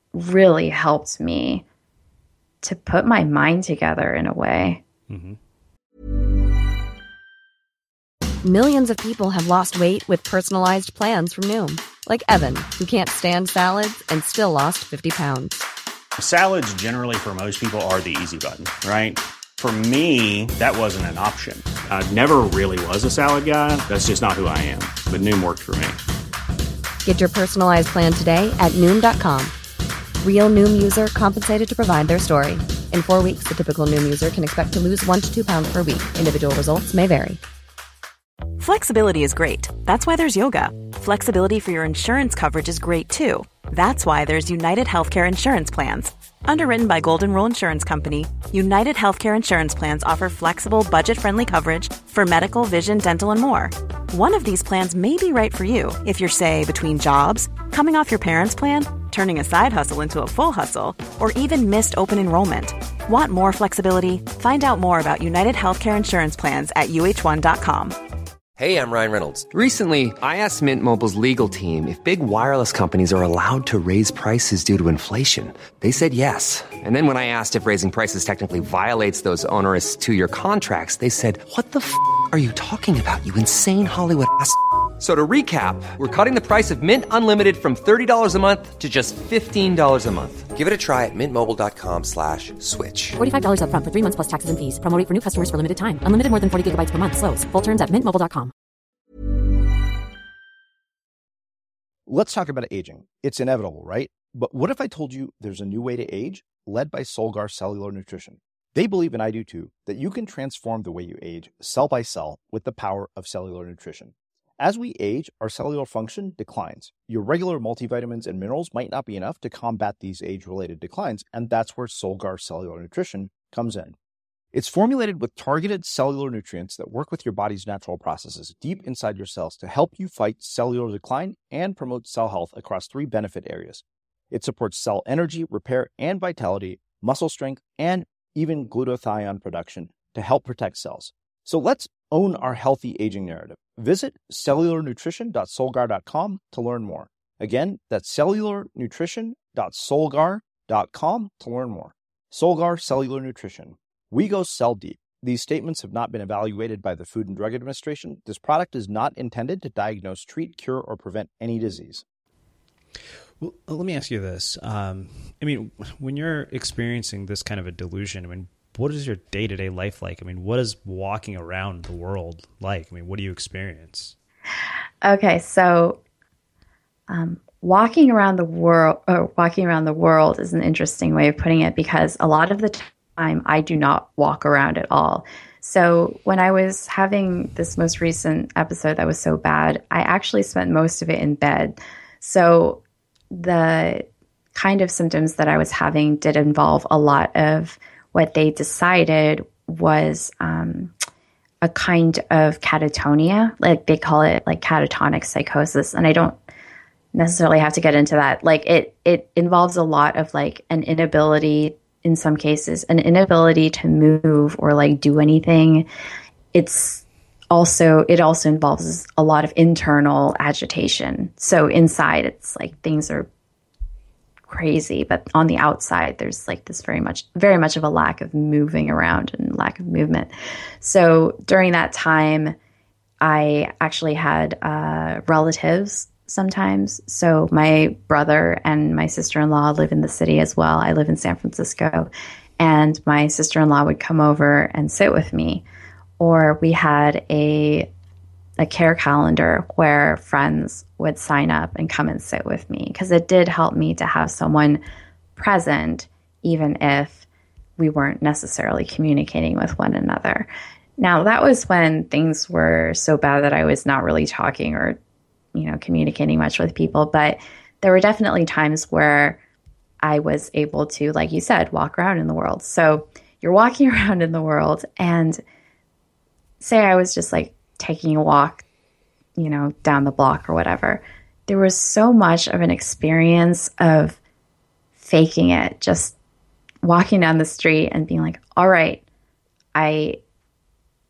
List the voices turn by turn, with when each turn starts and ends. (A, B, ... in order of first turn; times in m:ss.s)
0:00.1-0:01.6 A
0:02.6-0:04.8 A
0:05.1-0:05.4 B
0:08.4-0:15.6 C
0:16.2-0:26.0 D
0:27.0-0:29.5 C
0:30.2-0:37.4 C
0:38.6-1:08.0 E
1:08.6-1:33.2 F
1:33.2-1:38.5 G
1:42.1-2:04.0 H
2:04.5-2:42.0 H
2:43.4-2:54.2 B
2:55.0-2:56.0 A
2:57.1-3:12.8 A
3:13.3-3:20.9 A
3:21.6-3:26.4 A
3:27.1-3:35.9 A
3:36.5-3:43.3 A
3:44.5-3:52.6 A
3:53.2-4:05.6 A
4:06.2-4:07.9 A
4:08.6-4:14.8 A
4:15.4-4:17.3 A
4:17.8-4:25.0 A
4:25.5-4:29.4 A
4:30.0-4:35.4 A
4:36.6-4:38.6 A
4:39.4-4:44.2 A
4:45.0-4:46.2 A
4:46.8-4:49.0 A
4:49.8-4:50.2 A